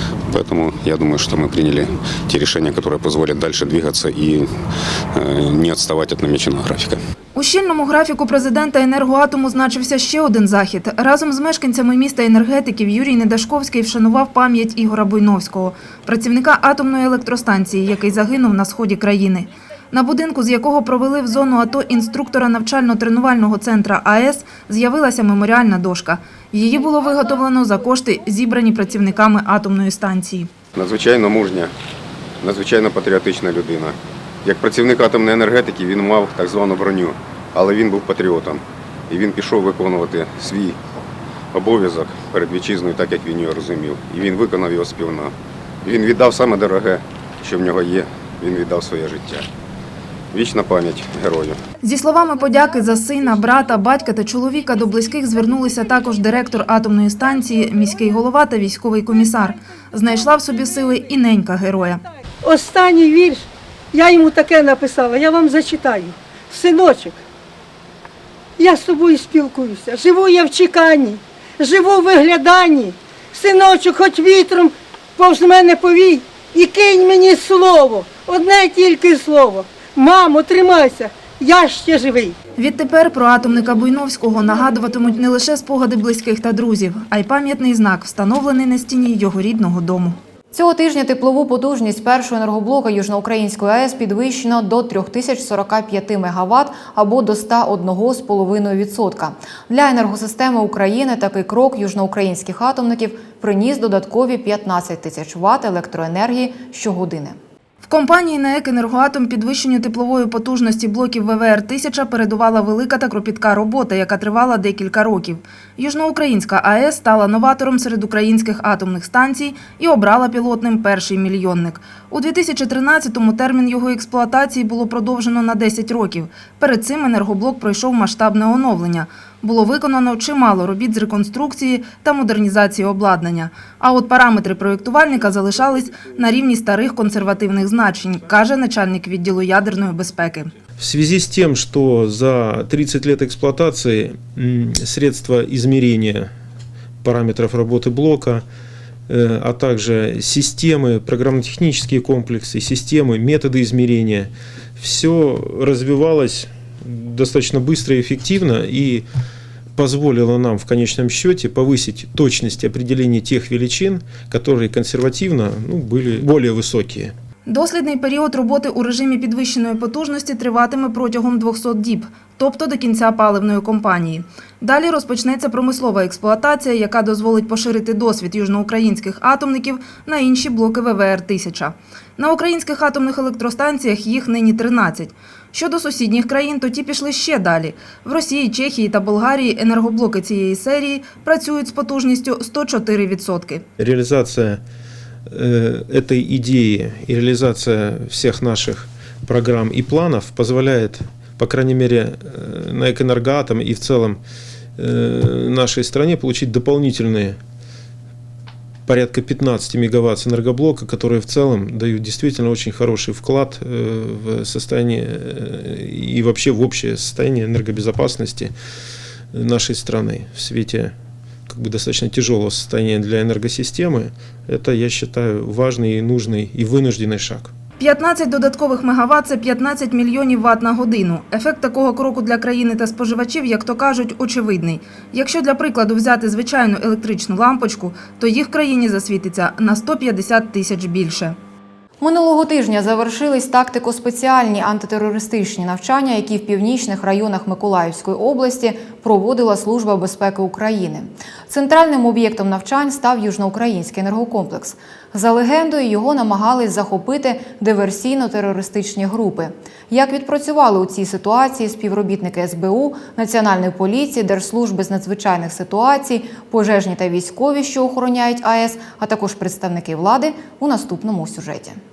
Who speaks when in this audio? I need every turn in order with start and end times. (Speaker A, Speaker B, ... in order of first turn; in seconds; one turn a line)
Speaker A: 0.3-4.6
Speaker A: 5.1-7.0
Speaker B: 7.3-30.5
Speaker A: 30.8-31.7
Speaker A: 32.4-40.8
Speaker A: 41.5-49.5
Speaker A: 50.3-51.6
Speaker B: 51.8-62.0
Speaker C: 62.4-67.2
Speaker C: 68.6-82.3
Speaker B: 82.6-90.2
Speaker D: 90.5-107.4
Speaker B: 107.8-140.5
Speaker E: 140.8-146.3
Speaker E: 147.0-148.4
Speaker E: 149.1-159.1
Speaker E: 159.8-167.1
Speaker B: 167.5-193.6
Speaker E: 193.8-194.6
Speaker E: 195.3-204.2
Speaker E: 204.8-207.4
Speaker E: 208.9-218.5
Speaker E: 219.3-220.9
Speaker E: 221.5-227.5
Speaker B: 227.8-241.4
Speaker D: 242.0-271.8